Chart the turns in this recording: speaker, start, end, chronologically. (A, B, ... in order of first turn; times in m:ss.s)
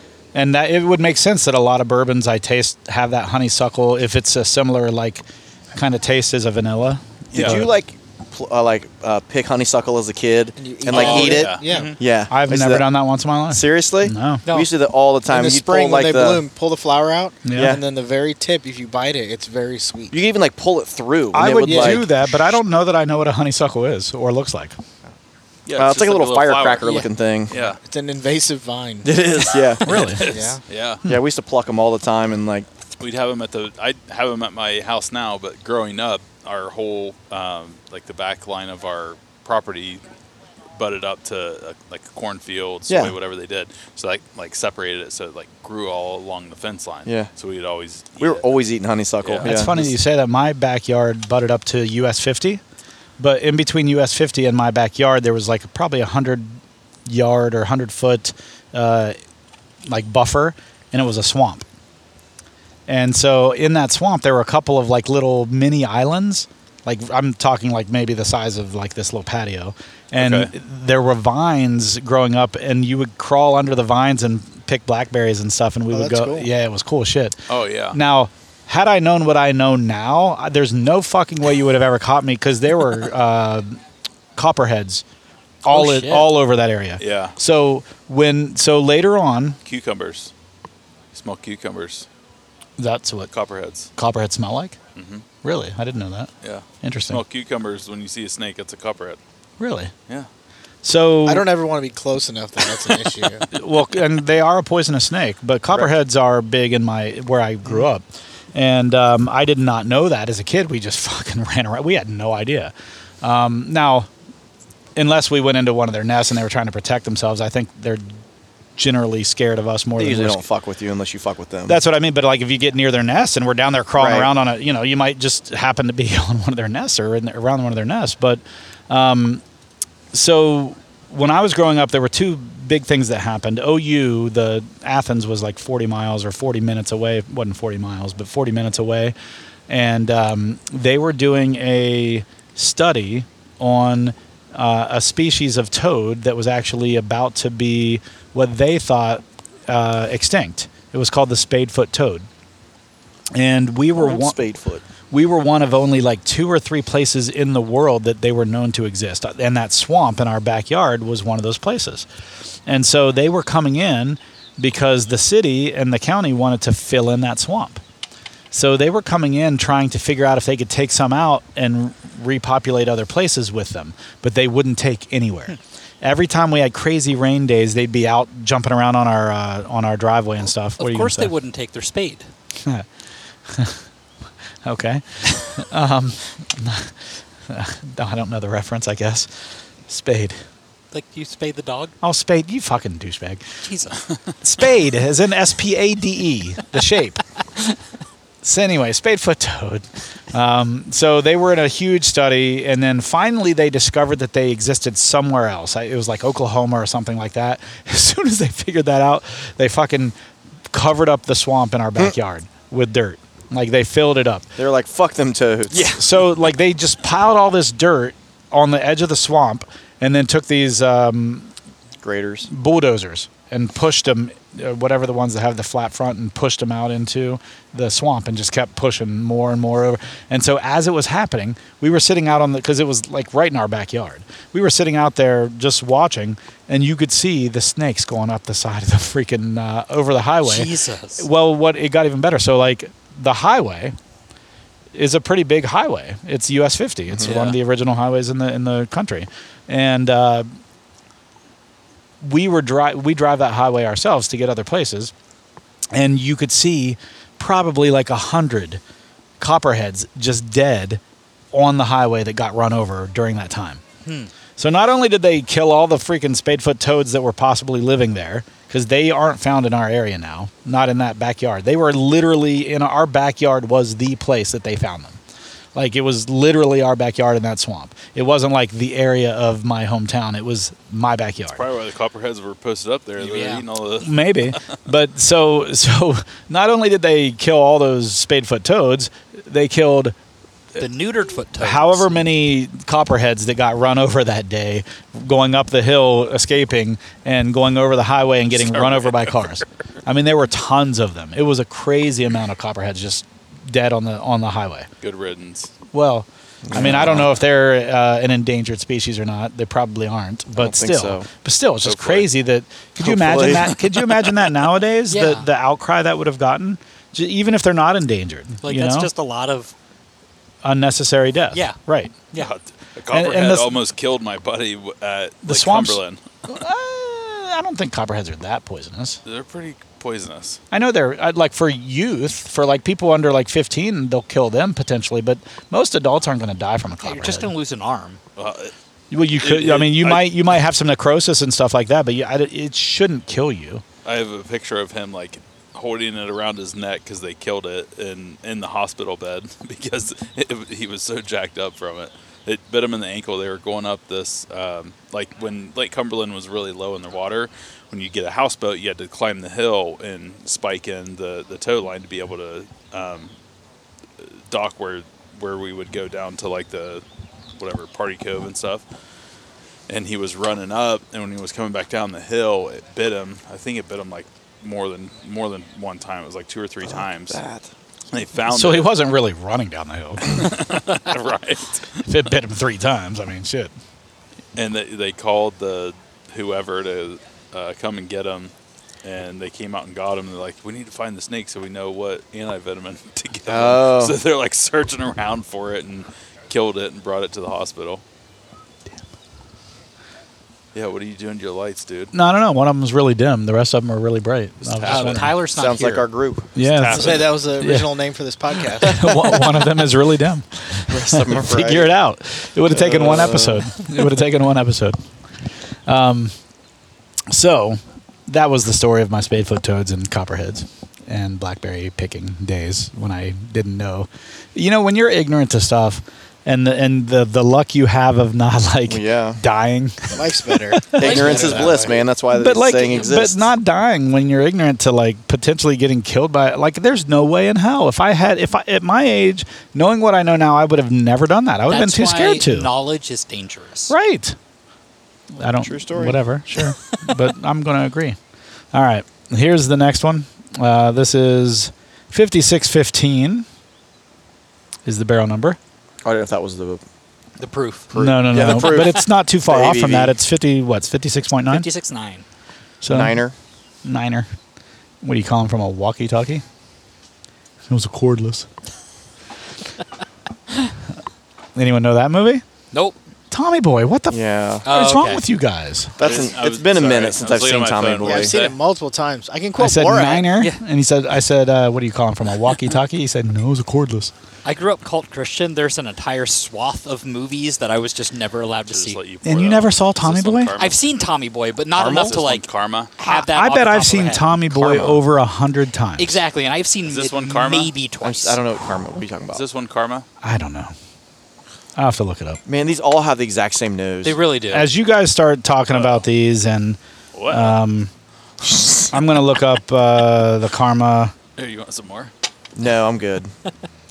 0:00.3-0:07.7 A
0:07.3-0:07.6 B
0:07.3-0:12.8 C
0:10.6-0:12.0 D
0:10.9-0:11.6 B
0:10.9-0:12.0 E
0:12.3-0:14.4 A
0:13.5-0:16.4 C
0:15.3-0:20.2 D
0:17.4-0:17.8 A
0:17.5-0:17.8 C
0:20.1-0:22.0 C
0:21.3-0:24.8 A
0:21.6-0:22.0 D
0:25.6-0:27.8 B
0:25.8-0:27.5 C
0:27.5-0:29.6 D
0:29.0-0:30.2 C
0:29.8-0:30.2 A
0:29.8-0:31.0 B
0:30.2-0:30.6 D
0:31.0-0:32.6 C
0:33.0-0:40.0 B
0:40.7-0:48.4 B
0:42.9-0:43.1 C
0:48.2-0:49.8 C
0:49.2-0:49.9 B
0:49.4-0:52.6 A
0:53.2-0:59.2 A
0:59.8-1:01.6 A
1:02.9-1:17.4 A
1:10.2-1:10.5 B
1:15.9-1:16.5 D
1:17.5-1:18.0 B
1:17.9-1:23.8 A
1:24.4-1:25.0 A
1:25.6-1:29.6 A
1:25.7-1:26.3 E
1:27.0-1:27.4 B
1:29.6-1:30.3 B
1:31.1-1:32.1 B
1:32.8-1:33.3 A
1:33.3-1:33.9 B
1:34.0-1:34.8 A
1:35.0-1:35.2 B
1:35.4-1:36.3 A
1:36.4-1:39.2 B
1:36.8-1:37.2 A
1:39.6-1:39.9 A
1:40.8-1:41.5 A
1:41.2-1:43.4 D
1:43.5-1:54.1 A
1:55.0-1:58.0 A
1:58.8-2:00.4 A
2:00.0-2:01.8 C
2:01.7-2:09.4 A
2:04.0-2:04.3 C
2:10.1-2:19.1 A
2:19.7-2:32.3 A
2:33.3-2:34.4 A
2:34.0-2:34.8 C
2:35.1-2:42.1 A
2:42.6-2:47.8 A
2:48.5-3:01.3 A
3:00.8-3:02.3 E
3:03.5-3:03.8 A
3:04.6-3:09.3 A
3:09.9-3:10.4 A
3:10.9-3:11.9 E
3:12.0-3:13.4 A
3:13.6-3:14.0 E
3:14.4-3:17.2 A
3:18.4-3:30.1 A
3:30.7-3:34.5 A
3:34.6-3:36.0 C
3:35.7-3:36.0 E
3:35.9-3:41.5 A
3:42.0-3:42.5 C
3:42.5-4:03.9 A
4:00.4-4:01.3 E
4:04.9-4:10.5 A
4:07.2-4:07.6 E
4:12.2-4:15.1 A
4:15.9-4:18.8 A
4:19.4-4:21.0 A
4:21.5-4:23.8 A
4:24.0-4:24.3 E
4:24.6-4:35.2 A
4:35.7-4:41.6 A
4:41.5-4:44.6 B
4:43.2-4:43.6 E
4:44.0-4:50.1 A
4:50.8-4:52.2 E
4:51.6-5:04.9 A
4:58.6-4:59.3 B
5:05.0-5:05.7 B
5:05.9-5:19.1 A
5:06.6-5:07.3 C
5:10.6-5:11.3 C
5:11.8-5:12.3 B
5:13.0-5:13.7 C
5:13.7-5:14.4 B
5:15.1-5:15.5 E
5:18.6-5:19.7 E
5:20.6-5:22.2 A
5:22.4-5:26.2 B
5:23.1-5:23.8 A
5:25.4-5:29.2 A
5:29.2-5:30.6 B
5:30.7-5:37.5 A
5:37.0-5:38.2 E
5:38.4-5:38.7 B
5:39.1-5:43.8 A
5:39.4-5:40.3 B
5:44.0-6:03.3 B
6:04.2-6:07.0 B
6:07.6-6:08.8 B
6:09.9-6:17.4 B
6:17.3-6:17.7 C
6:18.1-6:18.9 B
6:18.4-6:20.4 A
6:20.2-6:22.1 B
6:22.0-6:23.7 A
6:24.6-6:28.5 B
6:29.0-6:38.0 B
6:33.5-6:34.2 C
6:40.7-6:42.1 B
6:42.1-6:45.3 A
6:44.6-6:45.4 B
6:44.8-6:46.1 E
6:45.4-6:46.5 C
6:46.6-6:48.0 A
6:46.6-6:47.4 B
6:46.9-6:49.4 D
6:48.8-6:55.0 A
6:50.9-6:51.9 C
6:52.7-6:53.7 C
6:55.8-6:56.3 A
6:57.3-7:11.7 A
7:08.9-7:09.4 C
7:10.1-7:12.0 D
7:10.9-7:13.5 C
7:11.0-7:11.9 E
7:12.3-7:22.7 A
7:21.7-7:23.9 E
7:23.9-7:24.4 A
7:25.4-7:28.2 A
7:25.6-7:26.2 C
7:26.6-7:27.2 E
7:28.7-7:33.4 A
7:34.8-7:35.6 A
7:36.0-7:36.8 C
7:37.4-7:38.8 E
7:37.9-7:40.2 C
7:37.9-7:41.6 A
7:41.5-7:42.2 E
7:42.8-7:43.2 A
7:42.9-7:43.3 C
7:43.8-7:44.3 A
7:45.0-7:46.4 A
7:47.7-7:48.4 A
7:51.5-7:52.4 A
7:52.7-7:53.0 E
7:53.3-7:56.0 A
7:54.1-7:54.6 C
7:54.6-7:55.2 E
7:56.0-7:58.4 C
7:56.0-7:58.5 B
7:58.0-8:00.3 D
7:59.6-8:04.1 A
8:04.4-8:09.0 E
8:08.7-8:10.8 B
8:09.2-8:10.5 A
8:10.6-8:12.4 E
8:11.8-8:12.2 C
8:11.8-8:12.9 B
8:13.0-8:14.3 E
8:13.0-8:16.2 A
8:14.5-8:15.0 C
8:16.0-8:18.4 E
8:16.8-8:17.7 B
8:18.0-8:19.4 C
8:19.3-8:20.0 B
8:20.2-8:20.7 A
8:21.8-8:22.4 A
8:22.4-8:24.2 C
8:24.0-8:24.7 E
8:24.5-8:26.8 A
8:25.7-8:26.0 B
8:27.1-8:27.6 B
8:27.3-8:27.9 A
8:28.5-8:28.8 C
8:28.9-8:31.1 A
8:31.4-8:32.1 B
8:32.6-8:33.3 C